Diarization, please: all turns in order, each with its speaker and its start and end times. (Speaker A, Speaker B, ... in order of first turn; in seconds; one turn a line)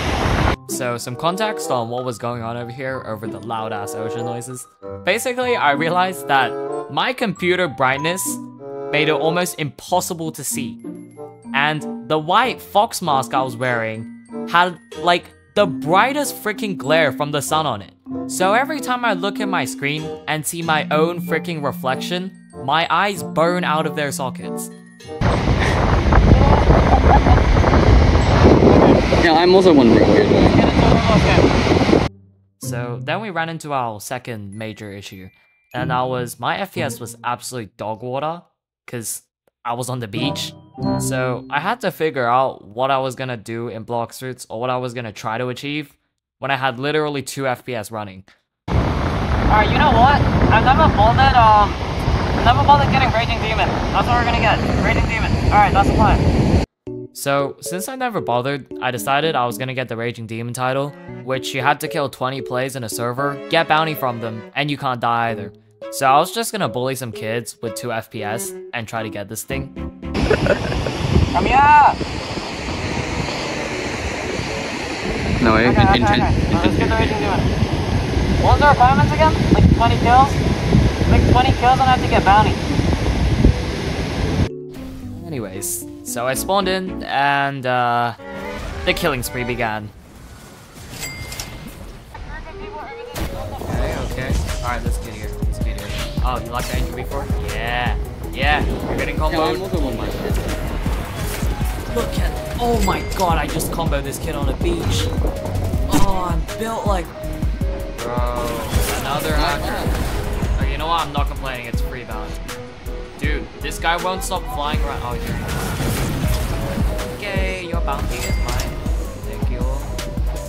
Speaker A: 0.7-10.8
Speaker A: 11.5-24.7
Speaker B: 26.3-27.3
Speaker B: 28.5-29.0
Speaker C: 29.2-30.6
Speaker B: 30.5-31.4
Speaker A: 32.6-48.3
Speaker B: 49.5-51.8
Speaker B: 52.4-56.2
Speaker A: 57.1-69.7
Speaker B: 71.3-72.0
Speaker C: 75.4-77.3
Speaker B: 75.6-77.5
Speaker B: 78.4-80.4
Speaker B: 81.1-82.6
Speaker A: 85.1-88.2
Speaker A: 88.8-89.9
Speaker B: 92.8-93.2
Speaker A: 93.5-100.2
Speaker C: 99.3-100.6
Speaker A: 101.9-105.1
Speaker A: 105.9-107.1
Speaker A: 108.0-110.0
Speaker C: 109.3-109.9
Speaker A: 110.5-112.4
Speaker A: 113.2-119.9